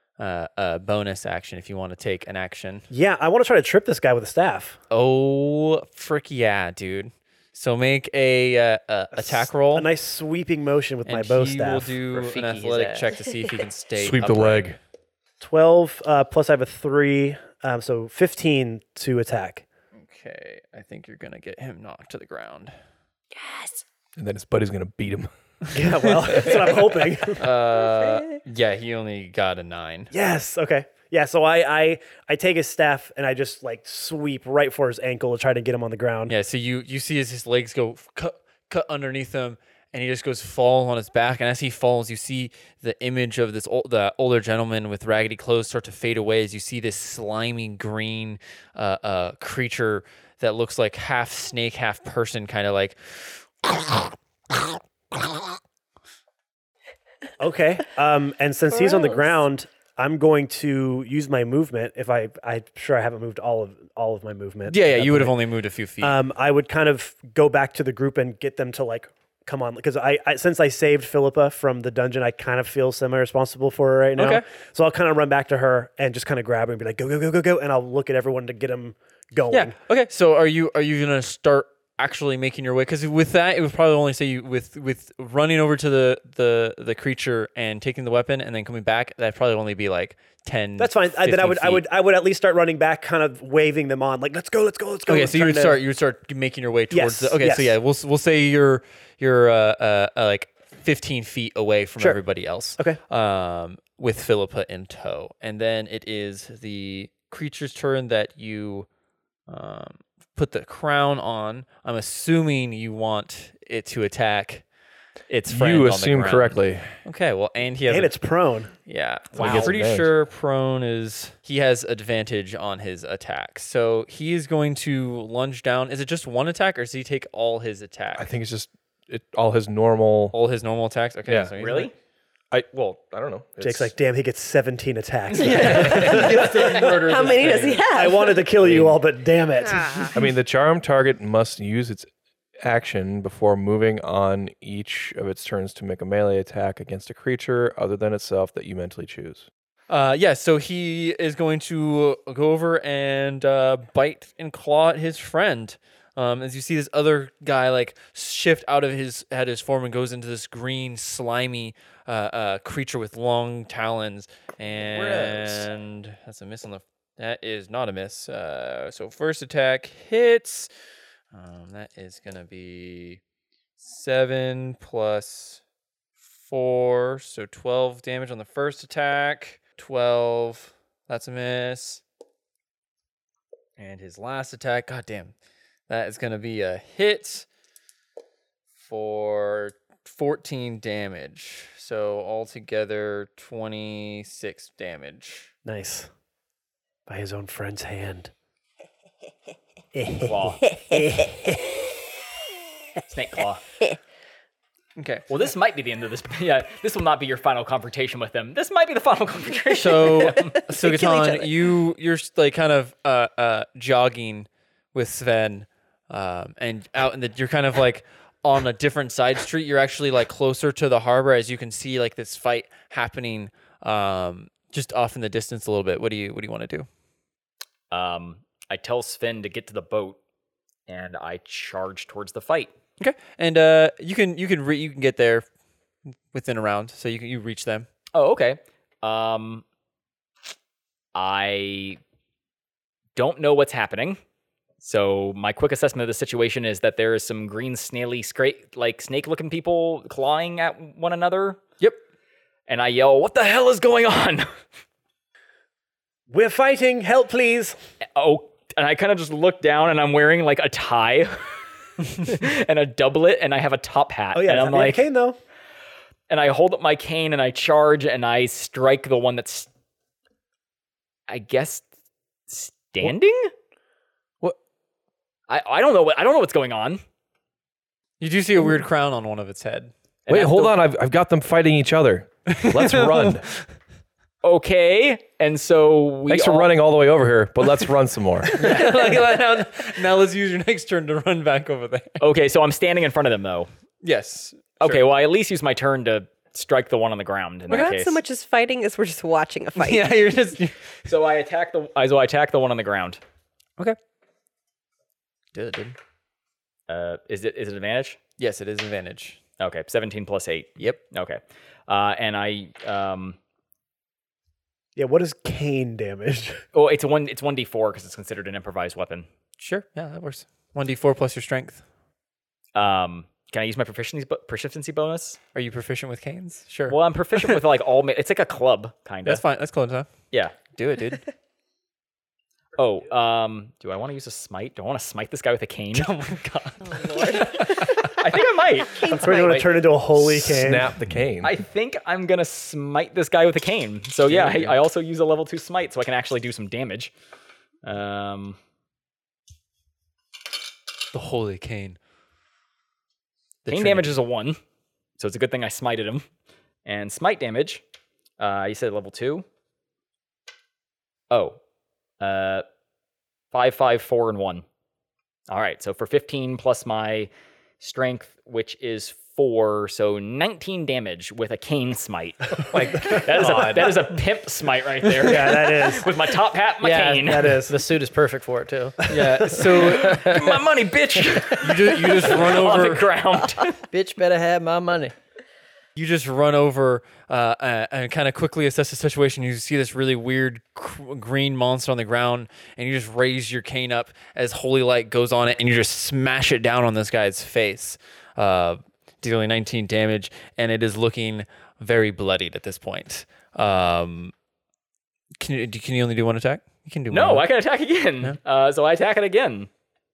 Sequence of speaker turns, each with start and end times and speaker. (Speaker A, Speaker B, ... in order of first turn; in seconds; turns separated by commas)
Speaker A: 0.2-2.9, Speaker B: 2.9-4.8, Speaker A: 4.9-9.9, Speaker B: 9.1-12.0, Speaker A: 11.1-14.7, Speaker C: 12.1-13.2, Speaker D: 13.9-14.8, Speaker B: 15.4-19.6, Speaker A: 20.0-22.7, Speaker E: 23.3-23.8, Speaker D: 24.2-25.3, Speaker B: 25.7-27.4, Speaker D: 25.8-26.4, Speaker A: 27.4-30.1, Speaker E: 27.8-28.4, Speaker B: 30.1-36.4, Speaker A: 36.3-53.4, Speaker B: 57.4-65.4, Speaker E: 58.7-59.3, Speaker A: 64.7-66.2, Speaker B: 66.0-79.8, Speaker A: 74.2-74.5, Speaker A: 79.5-91.8, Speaker B: 90.8-95.8, Speaker A: 95.1-108.9, Speaker B: 96.9-97.8, Speaker A: 109.5-114.7, Speaker A: 115.3-118.2, Speaker D: 115.5-117.0, Speaker B: 117.9-118.7, Speaker A: 118.8-128.3, Speaker F: 119.3-119.8, Speaker D: 119.4-120.1, Speaker D: 128.2-130.3, Speaker A: 130.3-131.9, Speaker D: 131.3-131.5, Speaker F: 131.6-131.9, Speaker D: 132.5-133.9, Speaker B: 133.6-137.1, Speaker A: 135.3-137.8, Speaker E: 135.4-138.5, Speaker D: 135.5-136.4, Speaker B: 137.9-140.1, Speaker E: 139.7-140.1, Speaker D: 140.1-142.1, Speaker D: 142.6-149.5, Speaker A: 149.9-170.7, Speaker D: 164.9-165.7, Speaker A: 171.3-173.2, Speaker A: 173.8-175.6, Speaker A: 176.4-182.0, Speaker A: 183.8-185.3, Speaker A: 185.9-187.5, Speaker A: 188.8-195.5, Speaker B: 195.7-196.1, Speaker B: 197.1-198.3, Speaker B: 199.9-201.5, Speaker F: 200.2-200.7, Speaker F: 203.1-203.6, Speaker A: 205.0-205.3, Speaker F: 205.3-210.6, Speaker A: 209.8-226.9, Speaker E: 210.4-211.5, Speaker F: 227.9-230.2, Speaker F: 230.9-232.7, Speaker A: 233.0-235.4, Speaker A: 236.3-237.9, Speaker F: 238.1-239.6, Speaker F: 241.2-242.0, Speaker F: 243.2-244.2, Speaker F: 244.8-251.6, Speaker F: 252.7-254.5, Speaker B: 256.3-257.8, Speaker F: 258.1-265.1, Speaker B: 264.3-265.4, Speaker F: 266.3-269.7, Speaker F: 271.3-271.9, Speaker F: 272.5-273.5, Speaker F: 275.5-277.0, Speaker A: 278.2-279.9, Speaker F: 280.3-280.8, Speaker D: 280.3-283.5, Speaker A: 282.5-283.5, Speaker F: 284.4-286.7, Speaker D: 286.3-288.5, Speaker A: 288.5-292.2, Speaker F: 288.6-289.0, Speaker F: 292.2-293.7, Speaker A: 294.0-295.0, Speaker F: 294.8-298.2, Speaker E: 297.7-300.2, Speaker A: 299.8-300.8, Speaker F: 301.1-303.2, Speaker A: 305.5-306.0, Speaker F: 306.9-308.2, Speaker A: 308.4-309.4, Speaker F: 309.6-313.4, Speaker B: 315.0-316.6, Speaker F: 316.7-319.3, Speaker A: 319.6-321.8, Speaker F: 322.8-325.4, Speaker A: 325.6-327.6, Speaker F: 326.9-329.4, Speaker A: 329.2-331.2, Speaker F: 332.8-336.1, Speaker A: 335.9-338.1, Speaker E: 336.8-338.2, Speaker F: 337.4-339.2, Speaker E: 338.9-339.7, Speaker B: 339.1-340.9, Speaker C: 339.2-339.6, Speaker D: 340.1-341.6, Speaker F: 341.4-347.1, Speaker A: 344.4-344.7, Speaker F: 347.8-348.6, Speaker A: 351.1-352.0, Speaker A: 353.6-354.1, Speaker F: 353.7-354.6, Speaker F: 355.2-356.3, Speaker F: 356.9-357.8, Speaker F: 358.4-359.4, Speaker F: 361.3-361.6, Speaker F: 362.2-362.6, Speaker F: 363.5-364.6, Speaker F: 365.5-367.3, Speaker F: 367.8-377.6, Speaker C: 373.4-373.9, Speaker B: 375.2-376.1, Speaker C: 376.8-380.5, Speaker B: 377.2-377.8, Speaker A: 379.1-380.5, Speaker F: 379.7-383.8, Speaker A: 381.6-383.2, Speaker C: 383.9-385.1, Speaker A: 386.0-404.3, Speaker A: 405.4-407.5, Speaker F: 407.1-409.7